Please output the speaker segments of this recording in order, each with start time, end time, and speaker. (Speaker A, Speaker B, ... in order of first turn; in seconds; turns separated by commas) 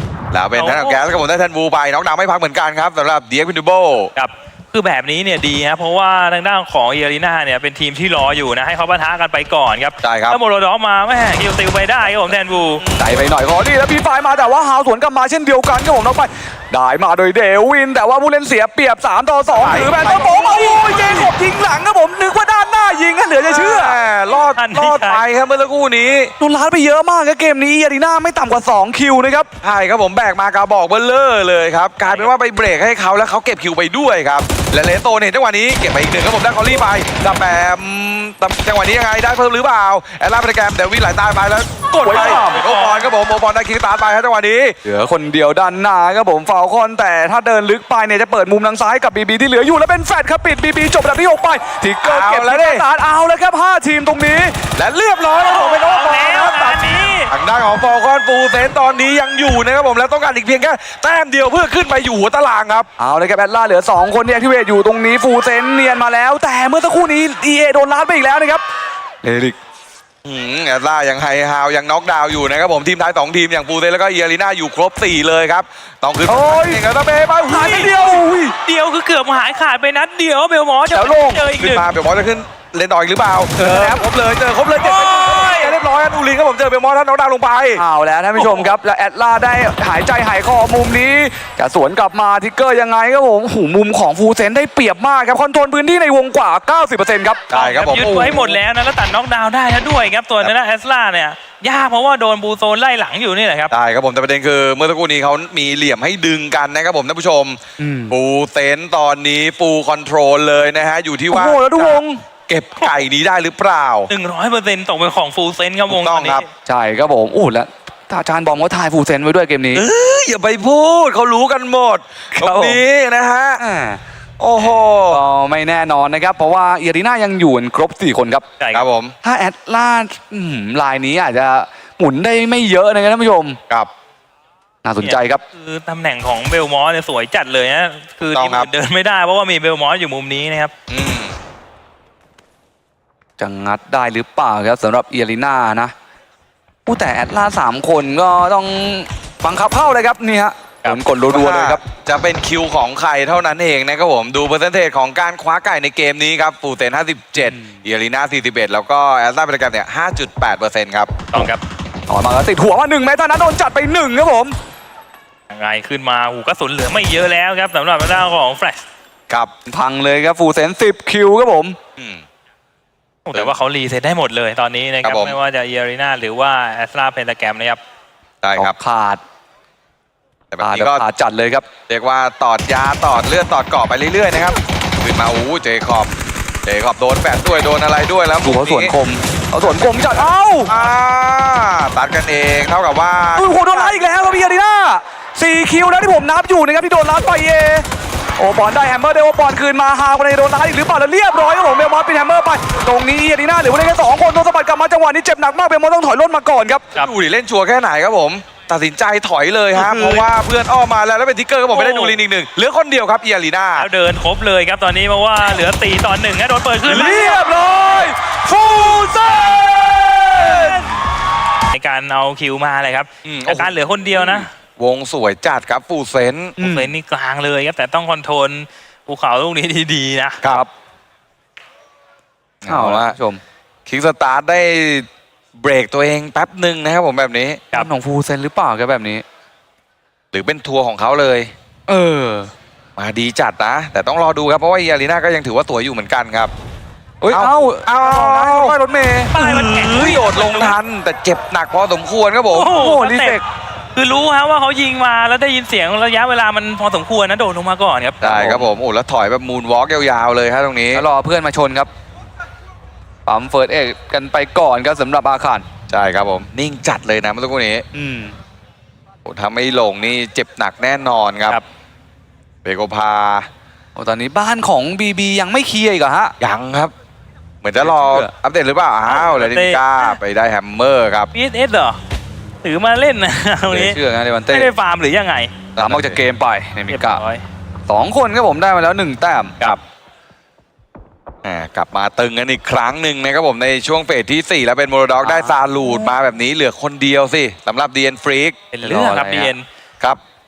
Speaker A: 0.3-4.1, Speaker B: 0.6-1.0, Speaker B: 4.2-12.8, Speaker A: 10.0-10.4, Speaker A: 12.8-13.3, Speaker C: 13.0-24.0, Speaker A: 19.5-21.3, Speaker A: 23.5-26.3, Speaker B: 24.6-25.2, Speaker C: 26.4-29.5, Speaker A: 29.6-44.8, Speaker C: 42.0-42.6, Speaker B: 42.3-43.1, Speaker C: 44.8-54.6, Speaker A: 52.0-52.8, Speaker A: 54.8-56.3, Speaker B: 55.5-57.3, Speaker C: 55.6-56.8, Speaker A: 57.3-62.9, Speaker C: 63.0-68.6, Speaker C: 69.2-69.5, Speaker A: 70.2-78.2, Speaker C: 76.3-76.8, Speaker C: 77.5-78.5, Speaker B: 77.6-77.9, Speaker B: 78.6-81.8, Speaker C: 80.9-81.4, Speaker A: 81.6-87.8, Speaker C: 83.6-84.0, Speaker B: 84.9-85.5, Speaker C: 85.1-85.7, Speaker C: 87.8-98.5, Speaker A: 97.5-98.5, Speaker B: 97.5-103.7, Speaker A: 103.7-114.1, Speaker C: 107.8-108.1, Speaker C: 111.3-112.2, Speaker B: 114.1-116.5, Speaker A: 115.9-116.4, Speaker C: 116.7-119.8, Speaker A: 119.7-123.6, Speaker C: 122.3-122.8, Speaker C: 123.6-124.0, Speaker A: 124.4-125.2, Speaker C: 125.1-128.4, Speaker B: 128.6-128.8, Speaker A: 128.7-129.1, Speaker C: 129.2-133.6, Speaker C: 134.8-135.4, Speaker B: 135.0-140.7, Speaker A: 138.3-138.7, Speaker A: 140.9-141.3, Speaker C: 143.4-145.9, Speaker C: 146.8-151.8, Speaker A: 151.3-161.2, Speaker C: 157.4-157.8, Speaker B: 161.3-161.6, Speaker C: 162.1-164.6, Speaker B: 165.5-168.8, Speaker C: 169.7-171.8, Speaker A: 172.0-172.2, Speaker B: 173.2-177.8, Speaker A: 175.0-175.3, Speaker A: 178.4-178.7, Speaker C: 178.6-179.2, Speaker A: 180.5-181.0, Speaker C: 180.6-181.7, Speaker A: 181.9-186.1, Speaker A: 186.6-188.9, Speaker C: 188.4-190.7, Speaker A: 189.6-194.1, Speaker C: 193.3-197.8, Speaker C: 198.4-206.9, Speaker A: 207.0-213.9, Speaker C: 209.8-210.2, Speaker B: 211.7-212.2, Speaker B: 213.8-217.3, Speaker C: 216.9-220.9, Speaker A: 216.9-219.6, Speaker A: 220.2-220.9, Speaker B: 221.7-224.5, Speaker A: 223.2-226.6, Speaker C: 226.6-226.9, Speaker B: 226.6-230.4, Speaker A: 232.6-233.2, Speaker C: 232.7-233.4, Speaker A: 233.8-237.6, Speaker C: 237.7-239.2, Speaker A: 240.3-241.5, Speaker C: 241.9-242.5, Speaker A: 243.0-246.5, Speaker C: 247.2-249.3, Speaker A: 247.3-248.8, Speaker B: 249.3-250.8, Speaker A: 249.3-252.7, Speaker B: 252.5-253.4, Speaker C: 252.7-253.4, Speaker B: 253.9-258.2, Speaker A: 258.2-261.0, Speaker C: 258.2-258.7, Speaker C: 260.9-261.9, Speaker C: 263.2-265.6, Speaker A: 265.9-267.8, Speaker C: 267.9-268.4, Speaker A: 269.2-271.6, Speaker A: 272.6-273.5, Speaker C: 273.9-276.3, Speaker A: 276.4-276.9, Speaker A: 277.6-281.3, Speaker C: 277.8-278.3, Speaker B: 279.1-279.8, Speaker B: 281.3-282.0, Speaker B: 282.6-284.0, Speaker C: 283.7-284.7, Speaker B: 284.5-285.5, Speaker A: 285.8-286.2, Speaker C: 285.8-287.2, Speaker B: 286.9-287.4, Speaker C: 287.9-289.8, Speaker A: 291.4-298.6, Speaker C: 295.2-296.1, Speaker B: 298.7-299.6, Speaker C: 298.8-299.5